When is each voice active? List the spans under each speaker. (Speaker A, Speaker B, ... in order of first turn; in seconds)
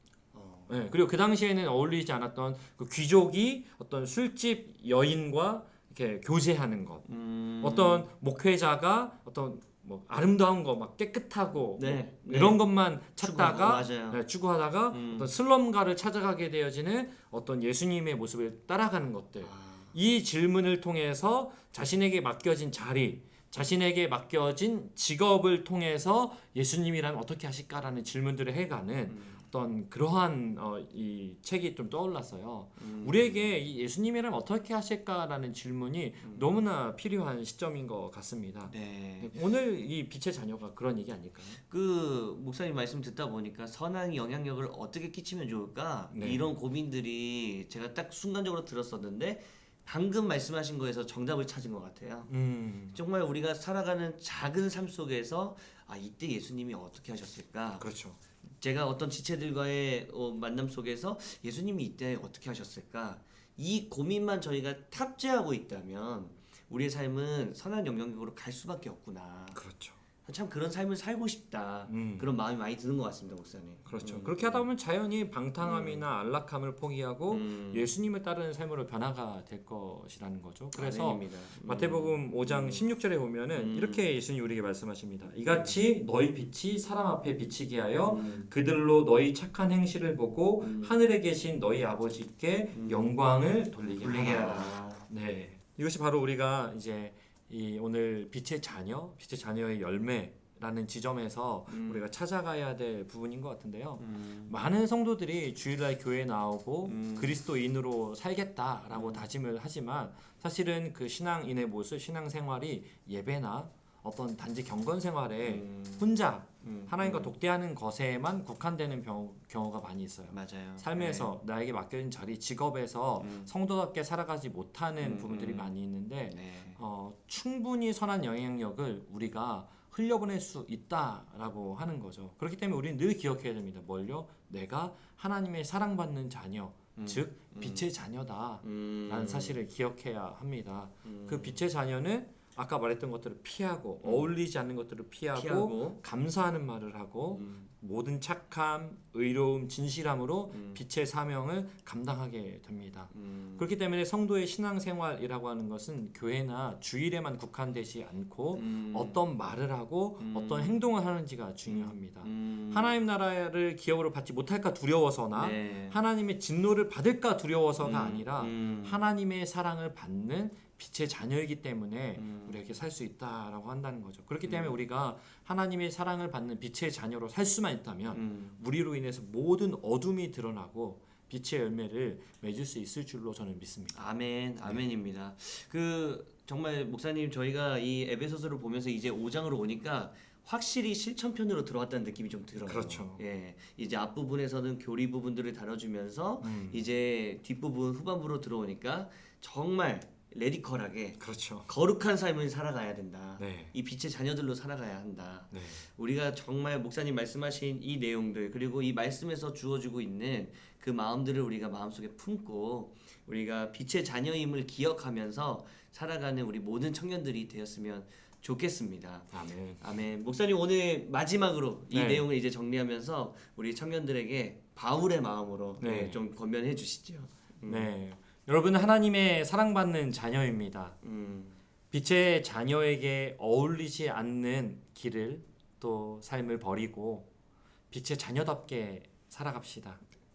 Speaker A: 0.3-0.7, 7.1-8.1, 11.8-12.6, 13.2-14.2, 14.9-15.3, 19.4-20.0, 29.1-29.4, 32.8-33.5, 38.7-39.3, 41.7-52.3, 52.9-57.9, 58.4-69.6, 70.2-74.7, 75.6-76.1, 77.3-77.9, 80.7-82.9, 83.5-84.1, 85.5-85.8, 88.0-88.5, 90.6-91.0, 92.7-93.2, 93.9-95.1, 101.7-102.0, 104.0-104.6, 106.9-107.4, 108.9-109.2, 115.4-116.1, 116.6-117.3, 120.3-121.3, 123.2-123.5, 125.0-125.7, 126.2-126.8, 137.0-137.9, 138.6-139.6, 141.1-141.7, 144.0-144.3, 145.3-146.0, 147.3-147.7, 150.5-150.8, 153.1-153.7, 158.6-159.2, 160.2-160.8, 161.7-163.0, 165.3-166.0, 167.8-169.0, 172.2-172.6, 174.4-174.8, 178.1-178.6, 183.9-227.9, 231.0-231.6
Speaker B: 0.7-7.1, 7.6-41.6, 46.1-46.4, 52.3-53.0, 57.8-58.2, 69.5-70.0, 71.9-72.3, 73.9-184.0, 192.6-193.2, 196.4-196.8, 201.2-201.7, 203.4-203.7, 205.5-205.8, 219.3-220.0, 221.9-222.3, 225.8-226.2, 227.7-230.9, 231.9-237.3, 237.9-240.0